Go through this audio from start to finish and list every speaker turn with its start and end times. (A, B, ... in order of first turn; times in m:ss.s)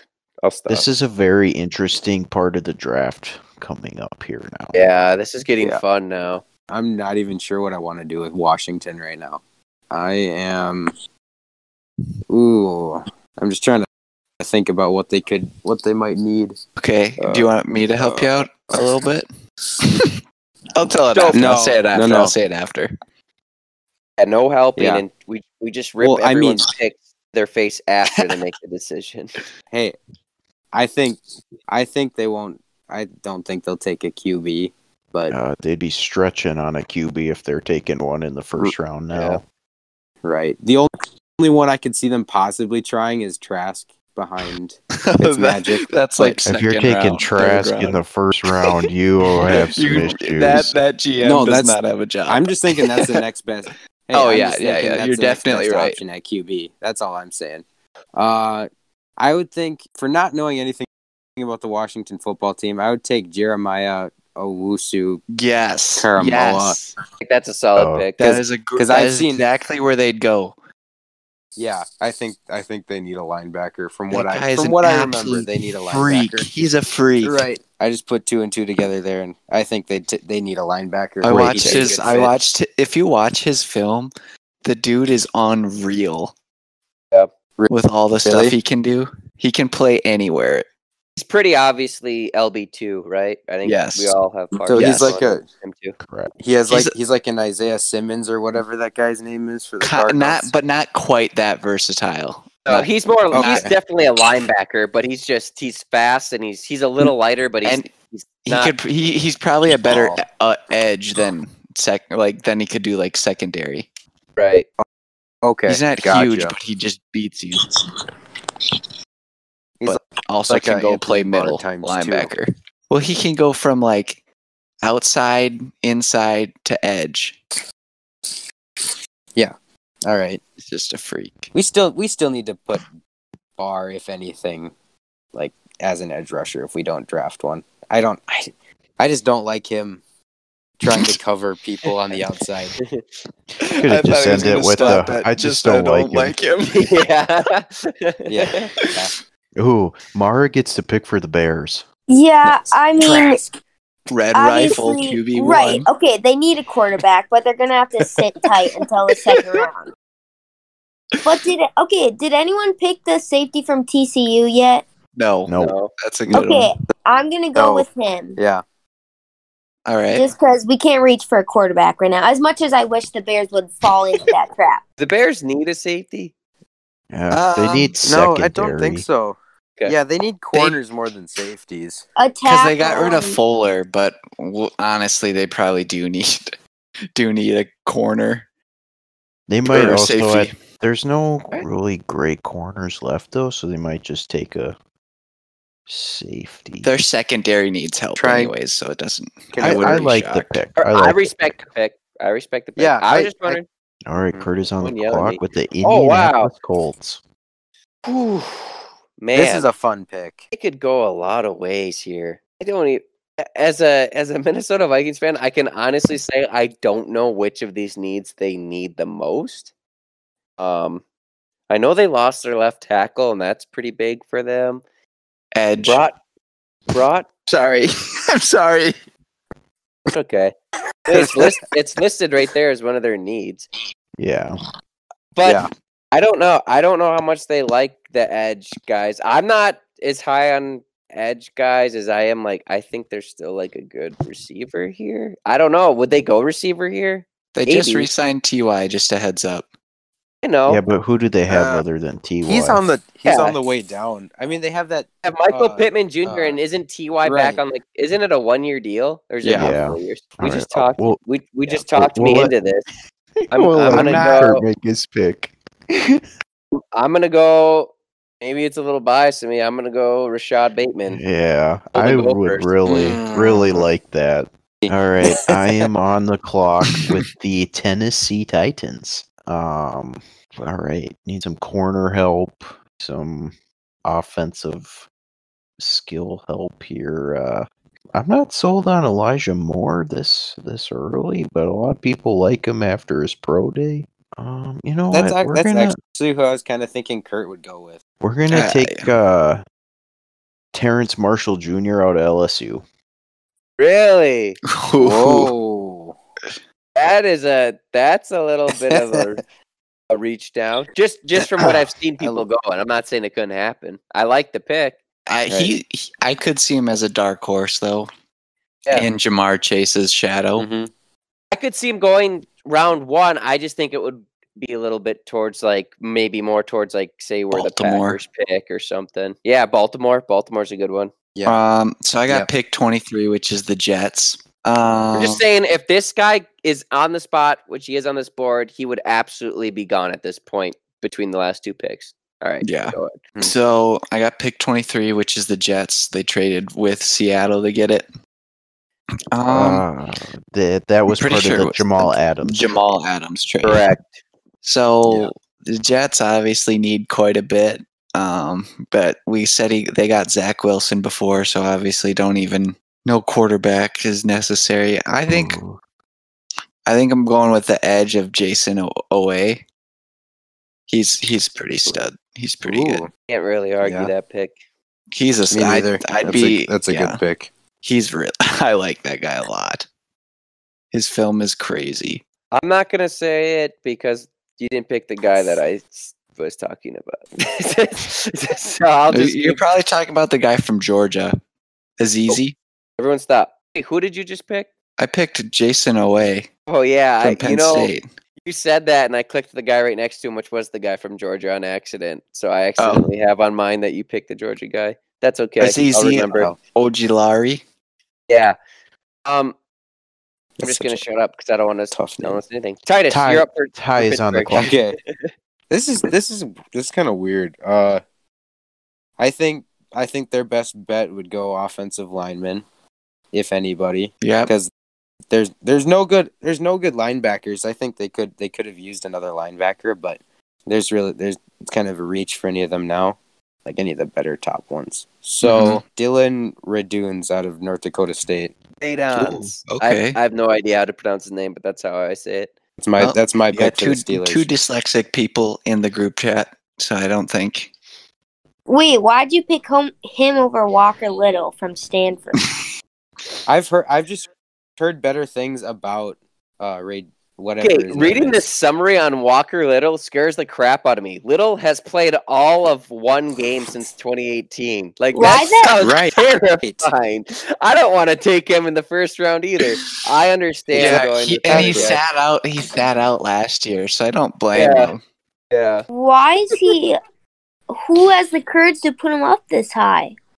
0:00.4-0:00.8 A
0:00.7-0:04.8 B
0:04.7-0:06.4 A
0:06.7-0:10.9 C
0:12.3-0:13.9 C
0:14.4-0:16.6 C
0:16.8-0:19.3 D
0:17.2-0:18.9 C
0:19.8-0:20.2 D
0:20.8-0:22.9 D
0:21.1-0:21.4 A
0:21.3-0:22.3 C
0:24.2-0:29.4 A
0:24.8-0:25.0 C
0:26.0-0:26.6 C
0:29.7-0:30.0 C
0:30.7-0:35.3 C
0:35.3-0:39.4 B
0:39.1-0:39.4 A
0:40.2-0:46.4 C
0:45.0-0:48.0 D
0:46.4-0:50.8 B
0:49.3-0:53.2 D
0:51.2-1:05.2 C
0:54.1-0:56.0 D
1:05.3-1:07.0 D
1:06.0-1:06.8 C
1:07.2-1:08.2 A
1:07.8-1:08.1 B
1:08.2-1:10.5 D
1:08.2-1:09.4 C
1:11.6-1:16.5 C
1:14.1-1:17.4 D
1:17.2-1:22.3 C
1:21.2-1:24.1 D
1:21.5-1:22.0 A
1:24.6-1:26.3 D
1:27.7-1:30.6 D
1:28.2-1:28.6 C
1:31.2-1:36.0 A
1:33.6-1:34.1 D
1:34.7-1:35.4 C
1:34.7-1:35.2 D
1:36.0-1:36.3 B
1:36.4-1:40.5 C
1:36.7-1:36.9 D
1:39.8-1:43.7 D
1:42.6-1:48.7 A
1:43.3-1:43.7 C
1:47.6-1:47.9 D
1:48.4-1:53.9 D
1:49.8-1:50.2 C
1:54.4-1:54.6 A
1:55.4-1:56.5 C
1:55.7-1:57.7 D
1:59.8-2:02.3 C
1:59.8-2:04.2 D
2:04.8-2:07.4 D
2:08.8-2:09.5 C
2:10.0-2:10.4 C
2:10.6-2:11.5 D
2:11.5-2:12.9 C
2:13.6-2:14.7 C
2:15.3-2:20.0 C
2:20.8-2:22.8 C
2:20.9-2:21.2 D
2:23.6-2:27.0 D
2:23.8-2:26.3 B
2:26.6-2:28.7 A
2:28.3-2:29.1 C
2:29.6-2:31.8 B
2:32.1-2:33.4 E
2:33.0-2:33.5 C
2:34.1-2:35.9 D
2:34.3-2:39.9 E
2:41.2-2:44.8 E
2:45.2-2:46.7 D
2:45.5-2:45.8 B
2:45.6-2:45.9 A
2:46.3-2:48.4 E
2:47.5-2:48.6 C
2:49.8-2:50.3 D
2:50.1-2:54.8 E
2:55.0-2:56.3 A
2:57.1-2:59.0 B
2:57.3-2:58.0 D
2:58.0-3:02.0 C
3:02.2-3:03.4 E
3:02.4-3:06.6 D
3:07.1-3:08.5 D
3:09.5-3:14.8 B
3:09.7-3:10.5 D
3:15.9-3:16.9 B
3:16.8-3:20.6 D
3:18.2-3:18.5 C
3:19.5-3:20.1 C
3:19.6-3:21.6 B
3:20.8-3:23.6 A
3:22.8-3:23.6 C
3:24.0-3:27.2 B
3:24.8-3:26.5 A
3:28.0-3:29.7 A
3:29.3-3:30.4 C
3:30.5-3:39.7 A
3:40.6-3:41.0 A
3:41.7-3:44.8 A
3:45.5-3:46.0 D
3:45.8-3:46.2 A
3:46.9-3:47.2 A
3:47.5-3:48.9 D
3:50.1-3:50.5 A
3:51.1-3:53.7 A
3:54.2-3:54.6 B
3:55.4-4:08.1 A
3:55.4-3:55.7 C
4:07.5-4:09.7 D
4:10.4-4:10.8 A
4:10.7-4:12.8 B
4:11.5-4:11.8 C
4:12.4-4:16.6 C
4:13.2-4:13.6 A
4:15.2-4:22.8 A
4:17.2-4:17.6 C
4:19.4-4:19.7 D
4:19.6-4:22.5 B
4:23.5-4:26.2 B
4:23.5-4:24.6 A
4:23.9-4:24.5 D
4:26.9-4:31.2 A
4:31.1-4:43.5 B
4:31.9-4:32.7 A
4:32.8-4:33.9 C
4:34.8-4:35.9 C
4:44.0-4:45.1 B
4:45.8-4:56.0 B
4:55.1-4:58.0 C
4:58.2-4:59.6 B
4:58.5-4:59.1 D
5:00.7-5:02.8 B
5:03.8-5:04.6 A
5:04.7-5:05.5 D
5:05.0-5:06.2 C
5:07.0-5:09.4 A
5:08.9-5:09.3 C
5:10.1-5:15.0 A
5:12.2-5:12.4 C
5:15.3-5:18.1 D
5:15.5-5:15.7 C
5:18.9-5:20.6 D
5:20.6-5:20.9 C
5:21.5-5:31.1 A
5:27.5-5:28.2 D
5:31.3-5:31.6 C
5:31.4-5:35.4 D
5:35.1-5:43.2 A
5:42.6-5:48.1 D
5:49.3-5:49.8 D
5:49.4-5:52.8 B
5:51.1-5:53.9 D
5:53.6-5:54.1 A
5:54.6-6:05.6 D
5:55.0-5:55.3 C
6:05.3-6:05.8 B
6:06.8-6:09.6 D
6:10.9-6:13.1 D
6:12.6-6:13.1 C
6:13.3-6:14.6 A
6:13.8-6:14.1 C
6:15.1-6:17.2 D
6:15.5-6:17.5 C
6:17.8-6:19.9 D
6:20.9-6:22.2 D
6:22.5-6:29.6 A
6:29.1-6:31.4 D
6:32.0-6:32.6 D
6:33.0-6:34.7 A
6:35.0-6:36.5 D
6:36.7-6:37.9 A
6:37.2-6:38.0 D
6:38.4-6:46.5 A
6:42.8-6:43.1 D
6:45.6-6:47.6 D
6:46.3-6:46.6 C
6:48.3-6:48.5 A
6:49.2-6:49.6 A
6:50.6-6:51.0 C
6:50.6-6:55.3 A
6:51.9-6:52.4 C
6:53.1-6:54.7 B
6:54.5-6:55.0 C
6:55.7-6:58.0 C
6:59.2-7:02.6 C
7:03.3-7:04.7 C
7:04.2-7:04.5 D
7:05.3-7:18.5 C
7:15.4-7:15.8 D
7:18.8-7:22.5 A
7:19.1-7:20.2 D
7:22.8-7:24.5 C
7:23.0-7:27.7 D
7:28.7-7:32.4 E
7:33.5-7:38.4 C
7:37.6-7:52.0 A
7:45.1-7:45.8 E
7:45.8-7:46.9 C
7:50.7-7:52.0 C
7:50.7-7:55.0 D
7:54.5-7:54.9 A
7:55.5-7:55.8 A
7:55.9-7:57.0 E
7:57.7-8:00.1 E